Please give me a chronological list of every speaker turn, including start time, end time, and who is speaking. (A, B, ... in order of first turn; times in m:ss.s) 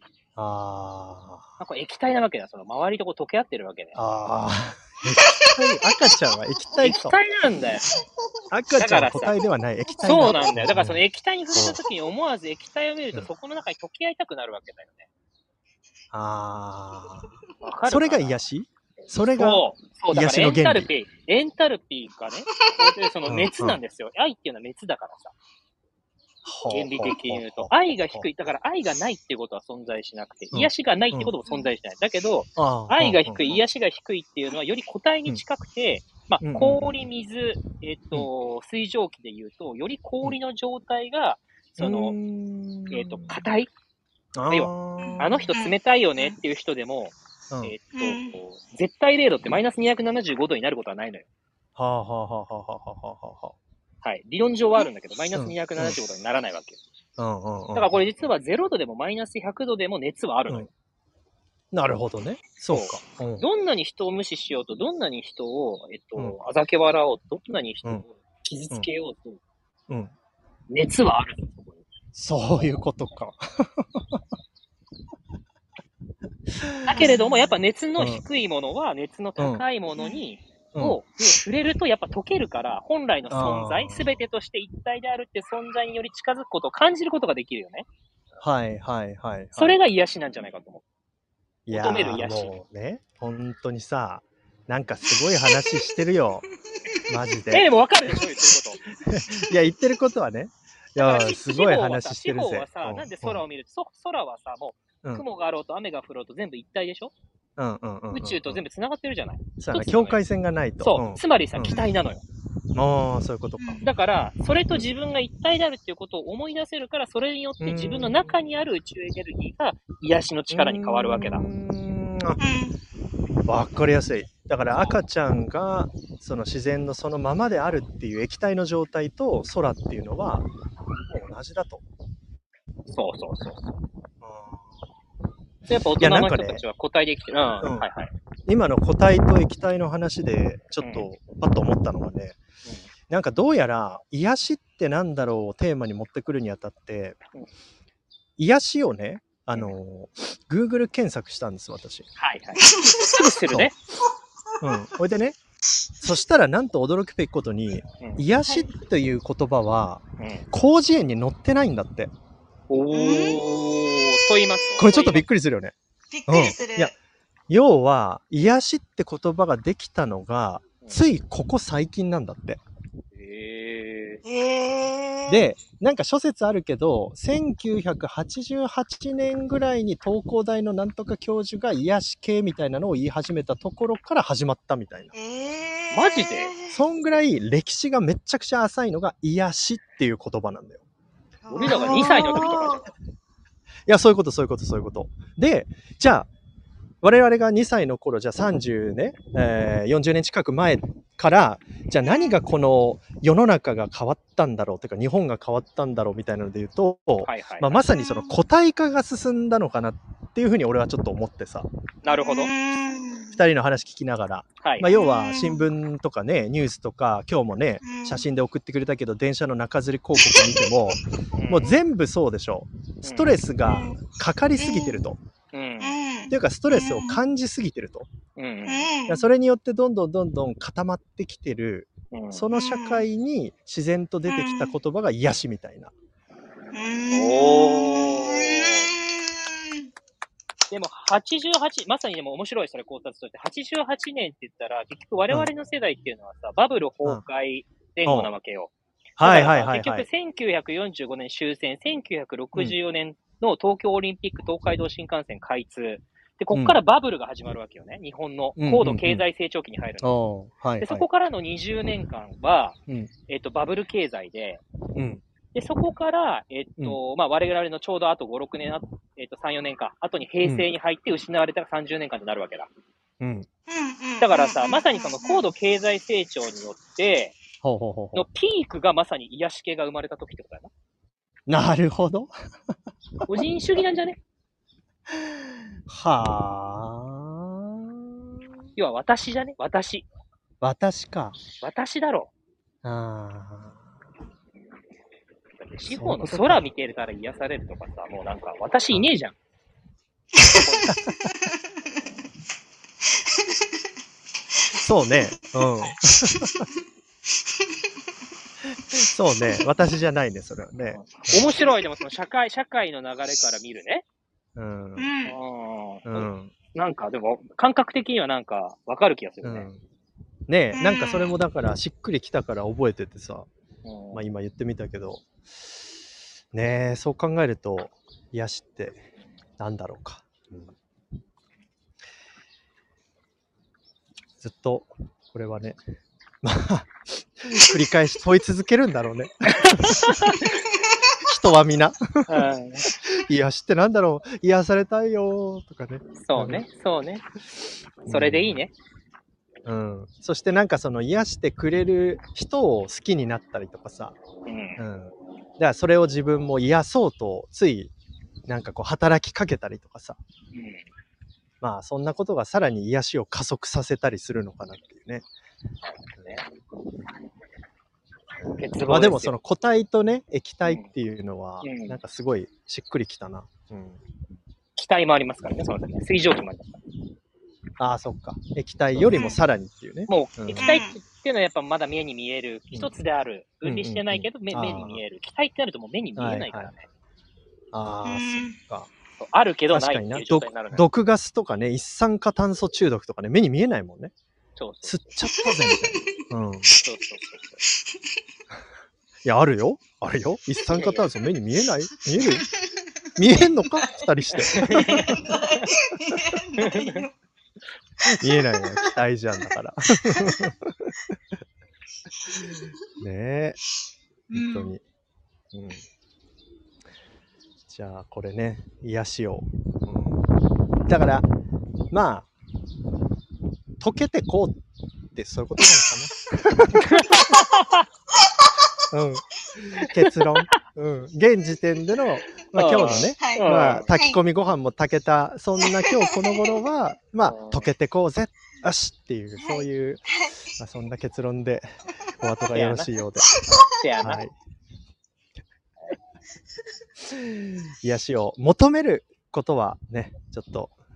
0:00.4-0:01.5 A
0:01.6-0:04.0 B
0:03.9-0:07.2 A
0:05.2-0:06.1 C
0:06.8-0:07.8 B
0:07.7-0:08.4 C
0:08.5-0:11.0 A
0:08.8-0:09.4 B
0:09.9-0:10.6 C
0:10.1-0:15.1 B
0:11.6-0:11.8 A
0:16.1-0:17.3 A
0:17.6-0:18.4 B
0:17.9-0:20.9 A
0:19.4-0:25.3 B
0:22.5-0:22.9 C
0:23.3-0:23.8 A
0:26.4-0:28.3 A
0:26.7-0:42.2 B
0:30.5-0:31.3 A
0:32.6-0:33.6 A
0:36.4-0:37.0 A
0:41.8-0:43.5 A
0:42.9-0:43.7 B
0:44.4-0:45.5 A
0:44.5-0:51.3 B
0:45.0-0:46.4 C
0:47.9-0:48.4 C
0:51.8-0:53.6 A
0:54.0-0:56.8 B
0:55.3-0:56.0 A
0:57.2-0:58.0 A
0:57.8-1:00.7 B
1:01.7-1:03.5 A
1:02.7-1:09.4 B
1:10.7-1:11.8 B
1:12.2-1:14.2 A
1:16.6-1:17.2 A
1:16.9-1:27.9 B
1:17.0-1:17.4 C
1:18.0-1:18.2 A
1:19.4-1:19.6 A
1:23.3-1:24.2 A
1:28.4-1:29.8 A
1:29.6-1:30.8 B
1:31.7-1:36.4 A
1:31.7-1:32.6 B
1:35.4-1:35.7 C
1:37.1-1:37.7 A
1:37.5-1:38.8 B
1:39.0-1:43.4 A
1:41.0-1:47.1 B
1:47.6-1:48.6 A
1:48.1-1:50.2 B
1:49.6-1:51.9 A
1:50.8-1:52.2 B
1:52.8-1:53.8 A
1:53.6-1:53.9 C
1:53.8-2:01.5 B
1:54.5-1:54.9 A
1:57.6-1:58.4 A
2:00.5-2:02.4 A
2:02.4-2:02.8 C
2:03.5-2:10.5 A
2:11.1-2:11.8 A
2:12.9-2:13.8 B
2:14.2-2:14.8 A
2:15.7-2:18.1 B
2:16.0-2:16.6 A
2:17.6-2:17.9 A
2:18.5-2:22.4 A
2:20.8-2:21.1 B
2:23.1-2:27.2 A
2:28.4-2:32.1 A
2:32.2-2:33.8 B
2:32.6-2:33.3 C
2:34.6-2:35.4 A
2:36.0-2:42.1 A
2:38.4-2:38.7 C
2:40.2-2:40.5 B
2:42.7-2:45.2 B
2:42.9-2:43.4 C
2:44.8-2:45.8 A
2:46.1-2:46.9 C
2:46.3-2:47.0 A
2:47.5-2:52.6 A
2:53.1-2:54.2 B
2:54.3-2:55.4 C
2:55.3-3:05.1 A
3:05.1-3:06.8 C
3:05.9-3:06.5 B
3:06.7-3:10.8 A
3:11.4-3:12.8 C
3:11.6-3:12.9 B
3:11.6-3:12.5 A
3:13.9-3:16.3 A
3:17.0-3:31.7 A
3:22.0-3:22.4 C
3:27.3-3:27.8 B
3:27.9-3:28.4 C
3:32.0-3:32.5 B
3:32.1-3:33.4 C
3:33.4-3:41.0 A
3:34.6-3:34.9 B
3:34.9-3:35.7 C
3:37.8-3:38.3 C
3:40.2-3:40.7 C
3:41.4-3:41.7 B
3:41.5-3:45.2 A
3:43.0-3:43.4 B
3:43.6-3:44.0 C
3:44.6-3:45.1 C
3:45.5-3:46.0 B
3:45.8-3:47.2 C
3:46.3-3:48.1 A
3:48.4-3:48.9 B
3:48.6-3:49.3 C
3:49.1-3:55.9 A
3:52.1-3:52.5 B
3:52.5-3:53.1 C
3:54.3-3:54.8 C
3:56.7-3:59.8 C
3:57.1-3:58.9 B
4:00.7-4:20.1 B
4:08.0-4:08.3 A
4:09.2-4:10.1 A
4:16.5-4:16.8 A
4:18.6-4:19.2 A
4:20.0-4:21.1 A
4:20.8-4:24.6 B
4:25.0-4:25.2 A
4:25.5-4:32.7 B
4:30.4-4:30.7 A
4:33.2-4:33.5 A
4:33.7-4:35.4 C
4:34.2-4:37.4 B
4:37.6-4:38.3 A
4:38.1-4:40.7 B
4:41.5-4:42.3 A
4:43.3-4:44.2 B
4:45.1-4:48.2 A
4:48.8-4:50.1 B
4:50.6-4:51.4 A
4:51.6-4:52.3 B
4:52.8-4:53.8 A
4:55.6-4:59.4 B
4:56.0-4:56.7 A
5:00.4-5:01.2 A
5:00.5-5:00.9 B
5:04.8-5:06.6 A
5:08.9-5:11.5 A
5:10.9-5:14.0 B
5:14.6-5:15.1 A
5:15.0-5:15.4 C
5:15.2-5:19.7 B
5:16.1-5:16.5 A
5:19.4-5:19.8 A
5:20.5-5:23.5 A
5:20.7-5:21.4 C
5:23.8-5:24.2 B
5:24.1-5:25.3 A
5:26.5-5:29.0 A
5:29.6-5:30.7 A
5:34.4-5:35.8 A
5:36.4-5:40.3 A
5:39.6-5:40.6 B
5:41.2-5:42.5 A
5:42.3-5:42.9 B
5:43.0-5:46.7 A
5:46.2-5:47.2 B
5:48.1-5:48.6 A
5:48.1-5:48.7 B
5:49.6-5:54.2 A
5:54.5-5:54.8 B
5:54.8-5:57.9 A
5:58.5-6:00.2 A
6:00.5-6:00.9 B
6:01.6-6:05.3 A
6:05.8-6:06.5 B
6:08.4-6:14.0 A
6:08.5-6:09.4 B
6:11.6-6:12.0 B
6:14.8-6:16.8 B
6:17.8-6:20.7 A
6:19.1-6:19.4 C
6:20.1-6:26.8 B
6:20.6-6:21.0 C
6:23.6-6:25.0 A
6:26.2-6:26.7 A
6:27.7-6:28.9 A
6:28.0-6:28.6 C
6:29.2-6:30.8 B
6:29.7-6:34.1 A
6:34.6-6:35.1 B
6:34.8-6:36.7 A
6:35.2-6:36.1 C
6:36.8-6:37.6 B
6:39.2-6:42.4 A
6:40.7-6:41.1 B
6:42.0-6:42.9 C
6:43.2-6:45.2 A
6:43.7-6:44.0 C
6:44.4-6:45.7 B
6:44.7-6:47.1 C
6:46.6-6:47.1 B
6:48.2-6:50.9 A
6:48.3-6:49.0 C
6:53.0-6:53.6 A
6:54.3-6:54.8 C
6:54.3-6:54.8 A
6:55.5-6:55.8 A
6:57.7-7:00.2 A
7:00.9-7:01.3 A
7:01.9-7:02.3 A
7:03.8-7:04.6 A
7:05.1-7:07.2 A
7:06.8-7:07.9 B
7:08.2-7:08.6 C
7:08.9-7:21.6 A
7:09.8-7:10.6 B
7:12.6-7:13.9 B
7:12.9-7:14.2 C
7:15.6-7:16.7 C
7:17.3-7:17.7 B
7:19.4-7:20.4 C
7:22.2-7:23.4 A
7:22.5-7:22.9 B
7:23.2-7:23.7 C
7:23.5-7:24.2 B
7:24.0-7:24.3 A
7:27.1-7:30.8 A